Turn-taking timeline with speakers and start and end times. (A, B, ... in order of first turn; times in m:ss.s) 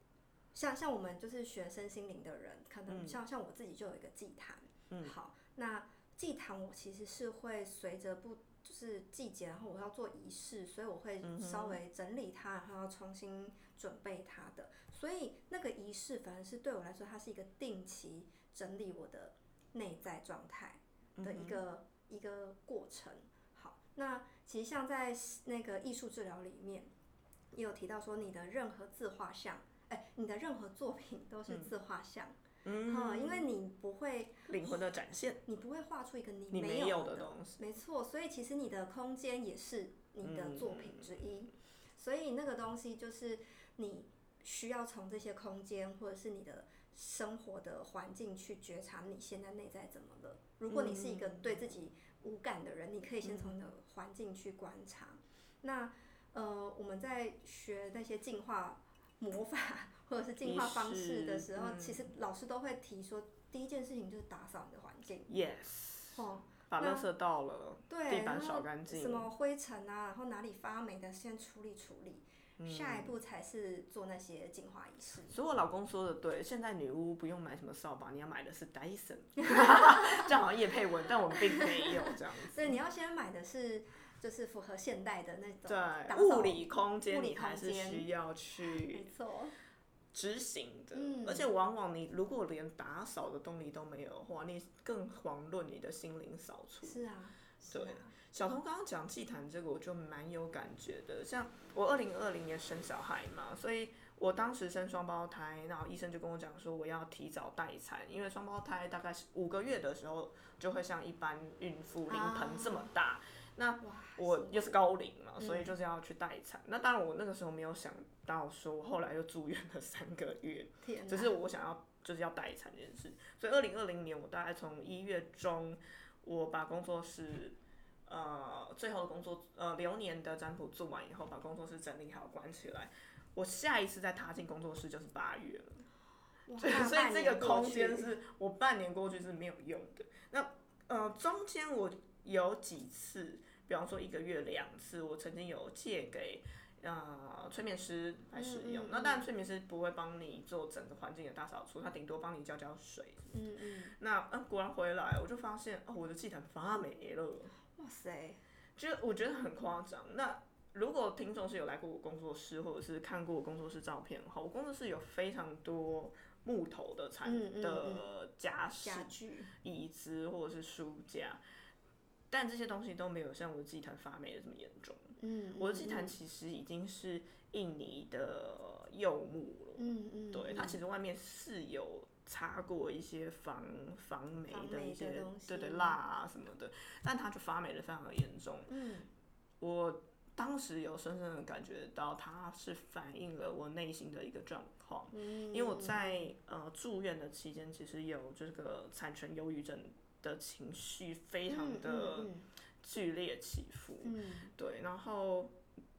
0:00.5-0:26.9 A
0:02.9-0:03.2 B
0:11.2-0:11.8 B
0:21.2-0:21.6 B
0:27.5-0:34.8 A
0:32.6-0:33.5 B
0:34.4-0:35.4 B
0:35.4-1:05.3 A
0:36.5-0:37.6 B
0:40.2-0:41.3 B
0:50.7-0:51.7 B
0:53.2-0:53.6 B
1:00.4-1:02.1 B
1:05.3-1:09.3 B
1:06.1-1:07.0 A
1:07.9-1:15.4 A
1:12.6-1:13.1 B
1:15.3-1:22.8 B
1:21.5-1:28.1 A
1:25.6-1:29.0 B
1:28.6-1:29.6 A
1:30.1-1:37.0 B
1:30.9-1:31.5 A
1:36.8-1:38.1 A
1:37.7-2:15.8 B
1:52.1-1:52.9 A
1:53.8-1:54.8 A
1:55.4-1:55.7 A
2:00.8-2:01.3 A
2:16.5-2:18.1 A
2:16.6-2:33.3 B
2:28.3-2:29.3 A
2:33.3-2:34.0 A
2:34.0-2:37.5 B
2:37.8-2:38.4 A
2:38.8-2:51.4 B
2:47.2-2:48.1 A
2:48.8-2:49.5 A
2:52.3-3:08.7 B
2:55.2-2:56.1 A
2:59.8-3:00.8 A
3:04.5-3:06.0 A
3:08.7-3:09.1 A
3:09.6-3:25.6 B
3:15.1-3:16.2 A
3:21.5-3:22.5 A
3:24.0-3:24.5 A